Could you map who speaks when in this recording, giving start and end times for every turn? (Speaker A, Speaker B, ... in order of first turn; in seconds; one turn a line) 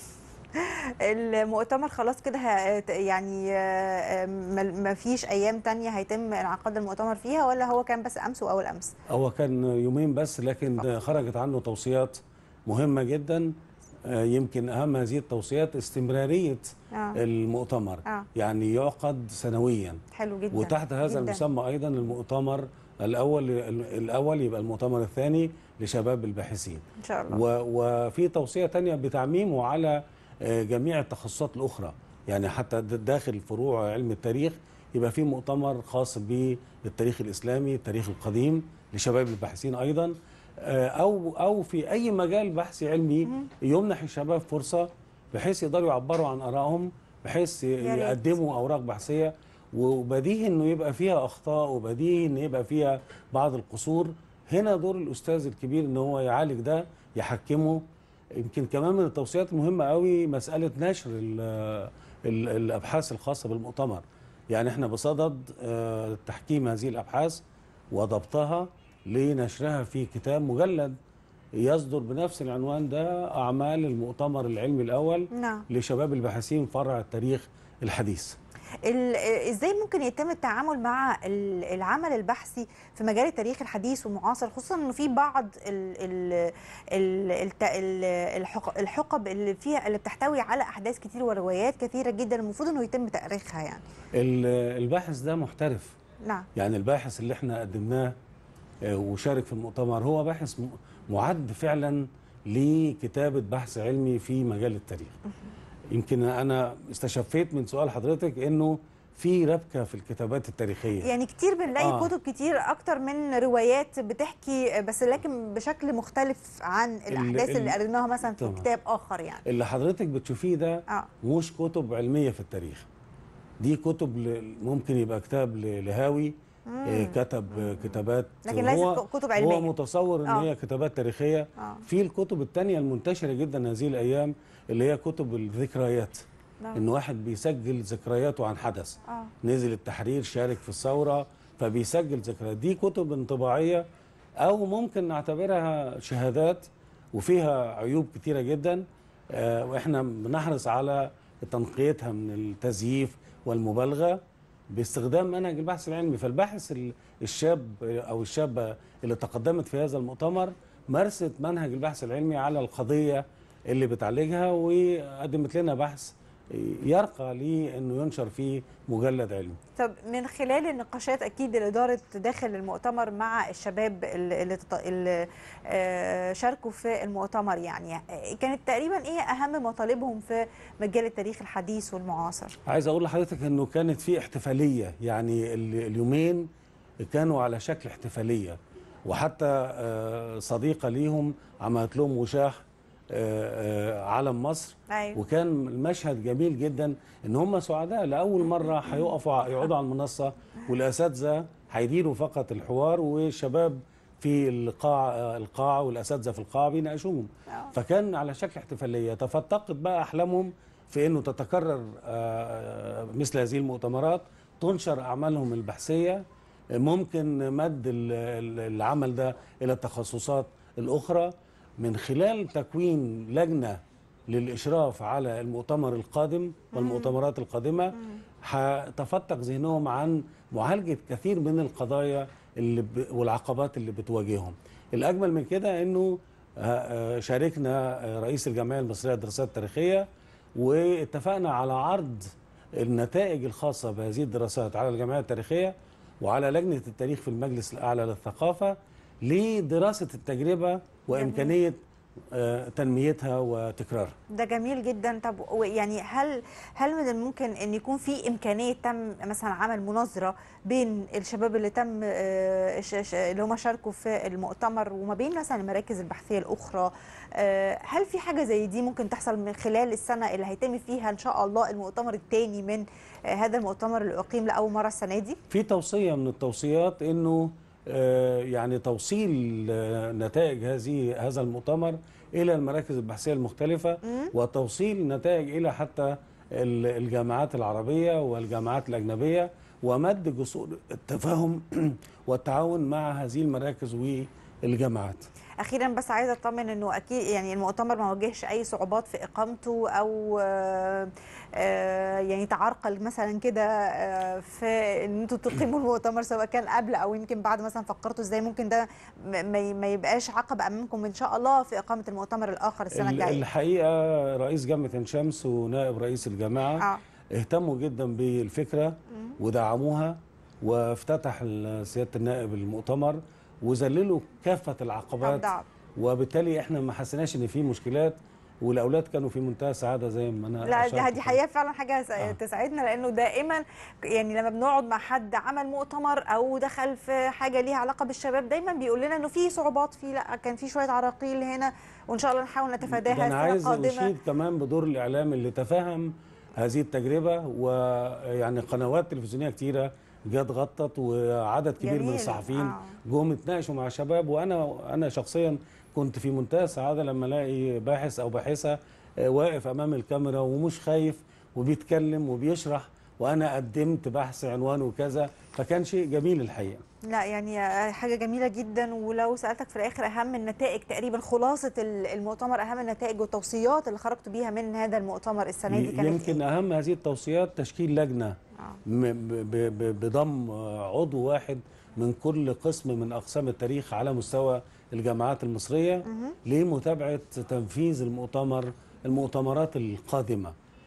Speaker A: 0.6-8.9
Speaker B: 9.1-20.0
Speaker A: 16.9-17.2
Speaker A: 20.1-21.4
Speaker B: 20.5-57.8
Speaker A: 27.0-27.4
Speaker A: 47.8-48.4
Speaker B: 58.4-71.0
Speaker B: 71.6-78.4
Speaker A: 75.3-75.6
Speaker A: 78.8-93.8
Speaker B: 94.2-96.0
Speaker B: 96.6-98.2
Speaker B: 98.8-105.1
Speaker B: 105.9-111.1
Speaker A: 111.0-119.4
Speaker B: 111.8-112.1
Speaker B: 117.1-117.8
Speaker B: 118.4-118.7
Speaker B: 119.5-122.8
Speaker B: 123.6-126.3
Speaker A: 126.7-127.9
Speaker B: 126.9-136.2
Speaker A: 128.4-129.7
Speaker A: 131.6-131.8
Speaker B: 136.8-143.9
Speaker B: 144.4-154.2
Speaker B: 154.7-169.6
Speaker A: 169.8-182.6
Speaker B: 182.7-186.5
Speaker B: 187.0-216.2
Speaker A: 194.9-195.2
Speaker B: 216.8-251.8
Speaker A: 226.7-227.1
Speaker A: 251.1-251.6
Speaker B: 252.3-254.2
Speaker A: 254.3-275.4
Speaker B: 275.5-295.3
Speaker A: 284.1-284.3
Speaker A: 295.6-313.4
Speaker B: 312.9-331.4
Speaker A: 325.2-325.7
Speaker A: 330.6-344.1
Speaker B: 342.9-366.8
Speaker A: 351.8-353.0
Speaker A: 367.1-376.4
Speaker B: 375.7-390.5
Speaker A: 386.1-386.4